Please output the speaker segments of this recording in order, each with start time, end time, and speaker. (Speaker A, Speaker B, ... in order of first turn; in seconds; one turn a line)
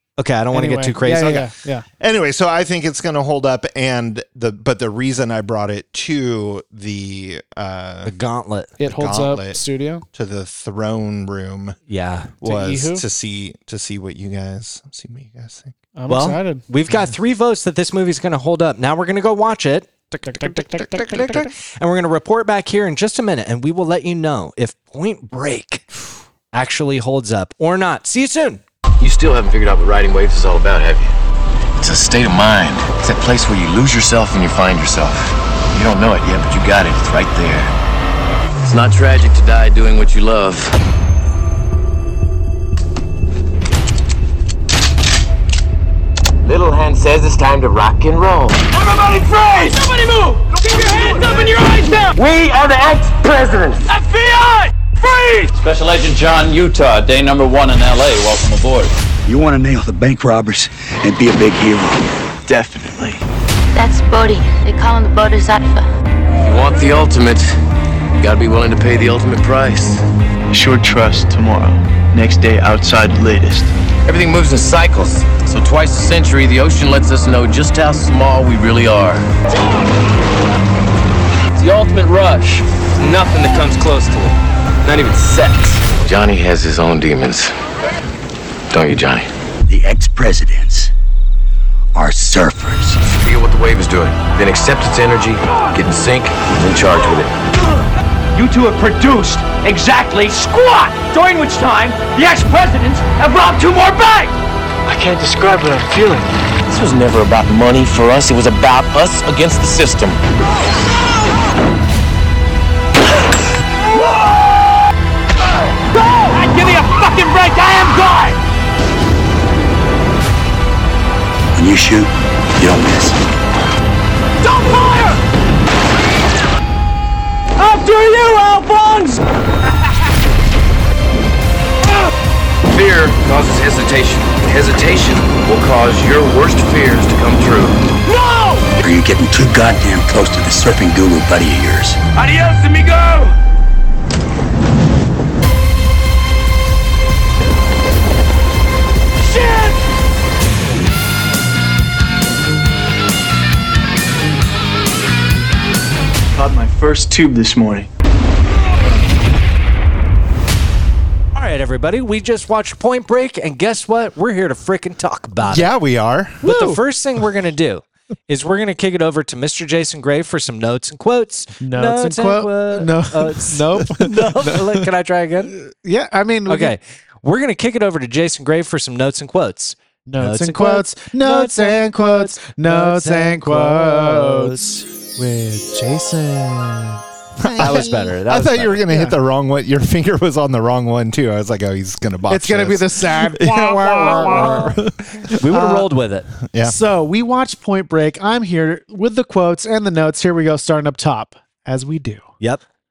Speaker A: 0.2-1.4
Speaker B: 0.5-1.9
Speaker C: 2.0-8.1
Speaker A: 8.0-8.7
Speaker B: 8.8-10.0
Speaker C: 8.8-9.6
Speaker C: 10.1-11.8
Speaker A: 11.9-12.3
Speaker C: 12.4-15.7
Speaker B: 12.4-13.0
Speaker B: 15.9-16.6
Speaker A: 16.1-25.9
Speaker B: 20.1-21.5
Speaker C: 20.8-21.5
Speaker A: 26.5-28.6
Speaker D: 29.0-31.1
Speaker D: 31.8-37.7
Speaker D: 38.6-40.8
Speaker D: 46.4-48.6
Speaker E: 48.7-52.1
Speaker D: 52.1-53.9
Speaker E: 53.9-55.5
Speaker F: 55.5-58.9
Speaker G: 59.2-62.1
Speaker H: 62.5-63.2
Speaker I: 63.7-65.9
Speaker D: 66.4-67.5
Speaker D: 68.2-70.0
Speaker H: 70.5-73.7
Speaker D: 74.0-79.3
Speaker D: 81.5-87.5
Speaker D: 88.7-89.3
Speaker G: 89.7-90.9
Speaker G: 91.9-93.0
Speaker D: 93.0-97.3
Speaker E: 98.3-104.3
Speaker D: 106.7-110.2
Speaker E: 115.9-118.4
Speaker G: 121.5-123.2
Speaker E: 124.4-125.2
Speaker E: 127.6-129.2
Speaker D: 132.7-137.8
Speaker E: 138.0-138.8
Speaker G: 138.8-142.0
Speaker E: 142.2-143.3
Speaker E: 149.3-149.8
Speaker H: 156.3-157.9
Speaker A: 161.3-165.7
Speaker C: 165.4-166.4
Speaker A: 166.4-175.6
Speaker B: 166.4-166.8
Speaker B: 171.6-174.9
Speaker B: 175.6-176.7
Speaker A: 176.5-184.8
Speaker B: 180.1-187.0
Speaker C: 187.4-195.3
Speaker A: 187.5-188.8
Speaker B: 187.6-187.9
Speaker B: 188.9-189.2
Speaker B: 192.3-195.9
Speaker A: 195.3-196.3
Speaker C: 196.5-196.8
Speaker B: 196.6-202.2